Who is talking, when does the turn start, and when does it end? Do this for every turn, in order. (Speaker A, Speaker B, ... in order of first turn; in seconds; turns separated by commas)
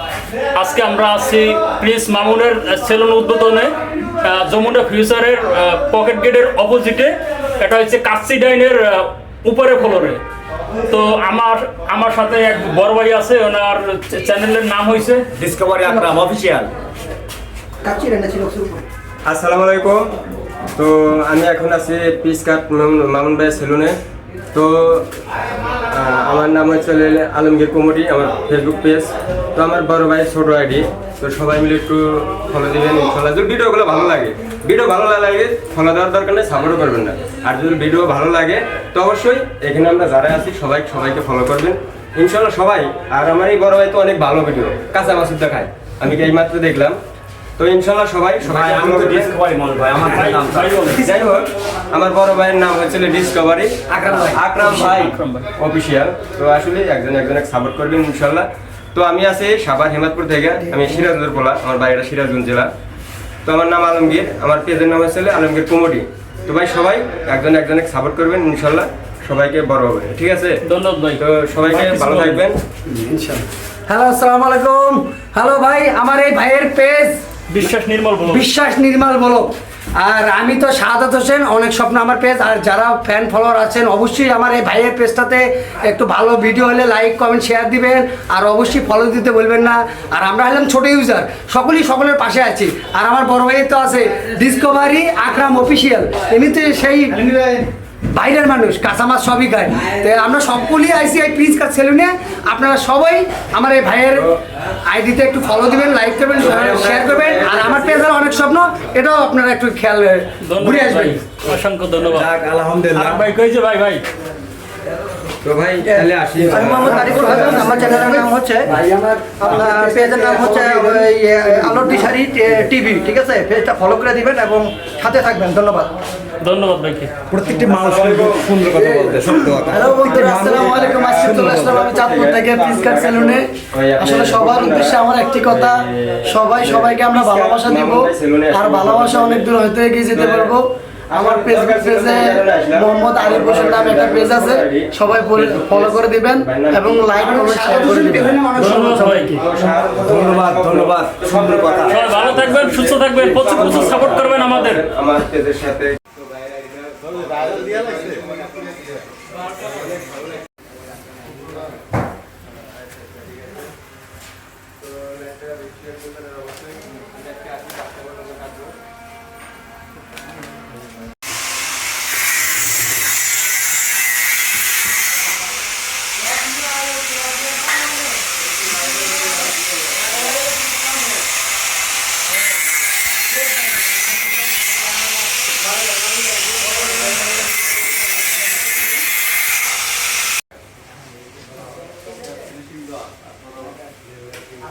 Speaker A: 0.5-10.2, Speaker A: 10.9-15.2, Speaker B: 15.4-16.7, Speaker C: 17.8-18.8, Speaker D: 19.2-20.1, Speaker D: 20.8-24.0, Speaker D: 24.5-25.1, Speaker D: 25.9-47.0, Speaker D: 47.6-49.3, Speaker B: 48.4-50.9, Speaker A: 50.1-51.1, Speaker D: 51.0-62.7, Speaker B: 53.9-54.5, Speaker A: 54.6-55.5, Speaker D: 63.5-70.6, Speaker A: 70.7-72.4, Speaker D: 71.2-72.6, Speaker E: 72.9-77.2, Speaker A: 77.5-78.4, Speaker E: 78.2-97.3, Speaker C: 97.3-97.6, Speaker E: 98.1-104.3, Speaker E: 104.9-111.2, Speaker D: 106.4-108.0, Speaker A: 110.4-112.3, Speaker B: 112.2-113.2, Speaker A: 113.0-114.0, Speaker D: 115.4-117.6, Speaker C: 116.5-118.7, Speaker E: 116.5-122.1, Speaker C: 119.4-125.9, Speaker A: 126.4-127.1, Speaker B: 127.3-130.7, Speaker D: 127.6-139.5, Speaker E: 129.1-149.4, Speaker C: 129.7-131.5, Speaker B: 131.2-131.8, Speaker D: 140.1-140.6, Speaker D: 141.1-147.0, Speaker C: 146.7-148.4, Speaker A: 148.6-149.4, Speaker D: 149.4-156.0, Speaker B: 150.0-152.0, Speaker A: 151.9-154.8, Speaker D: 157.0-158.2